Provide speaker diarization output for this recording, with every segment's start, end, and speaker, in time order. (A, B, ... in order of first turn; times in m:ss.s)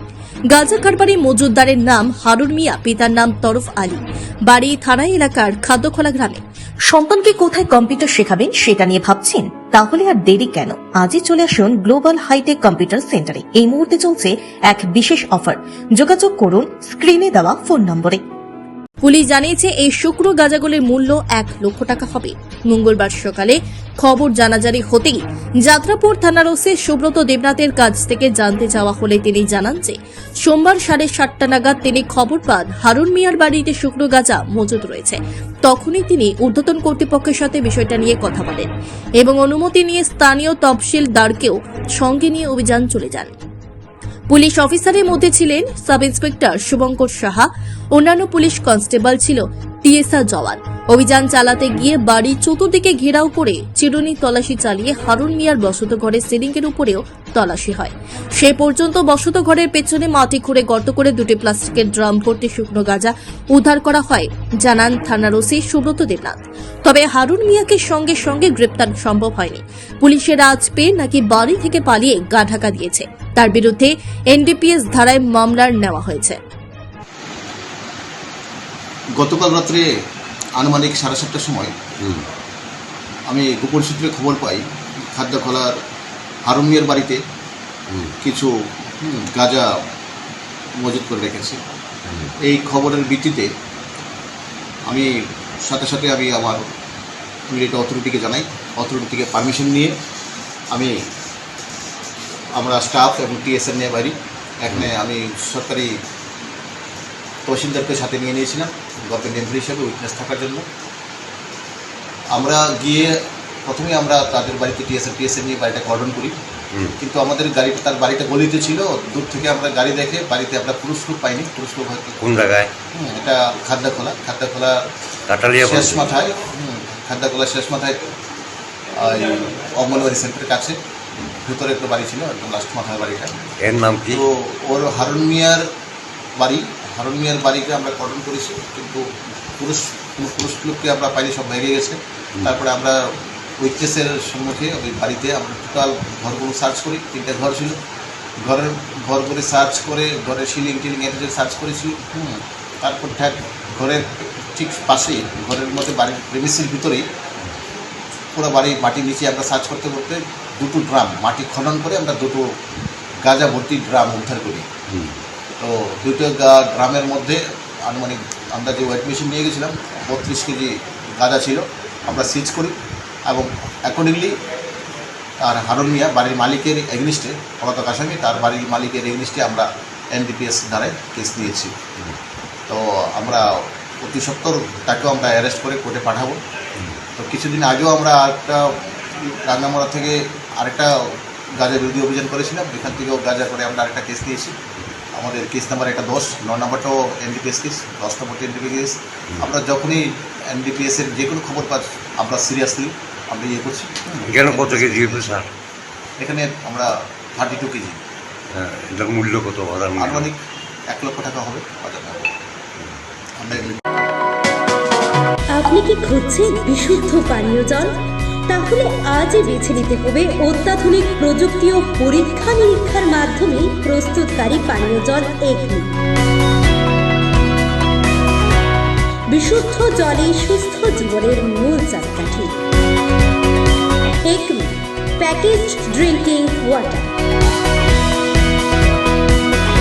0:00.5-0:06.4 A
0:06.9-0:18.2 B
0:19.0-0:38.7 A
0:39.2-0:43.4 A
0:44.3-1:16.4 A
1:19.2-1:19.8 C
1:20.6-1:21.7 C
1:23.3-1:25.7 C
1:26.4-1:27.2 C
1:28.2-1:29.7 C
1:30.8-1:31.6 C
1:32.1-1:32.3 D
1:32.4-1:33.5 C
1:34.8-1:36.6 C
1:37.5-1:40.0 C
1:40.7-1:41.0 C
1:42.5-1:45.9 C
1:47.4-1:50.6 C
1:52.3-1:56.3 C
1:57.0-2:02.2 C
2:02.2-2:02.7 D
2:02.9-2:04.8 C
2:05.3-2:06.2 D
2:05.6-2:08.0 C
2:08.9-2:10.8 C
2:11.4-2:13.4 C
2:13.6-2:14.2 D
2:14.1-2:15.6 C
2:16.4-2:27.8 C
2:28.4-2:37.0 C
2:38.3-2:42.5 C
2:43.2-2:44.7 C
2:44.9-2:45.2 D
2:45.6-2:52.8 C
2:53.3-2:54.3 C
2:55.4-3:01.7 C
3:02.7-3:06.4 C
3:07.2-3:14.5 C
3:15.1-3:25.4 C
3:24.2-3:25.5 D
3:26.2-3:28.0 C
3:28.5-3:30.3 D
3:30.0-3:32.3 C
3:33.4-3:33.8 C
3:35.5-3:37.9 E
3:38.5-3:45.9 E
3:49.3-3:52.6 E
3:54.2-3:57.1 E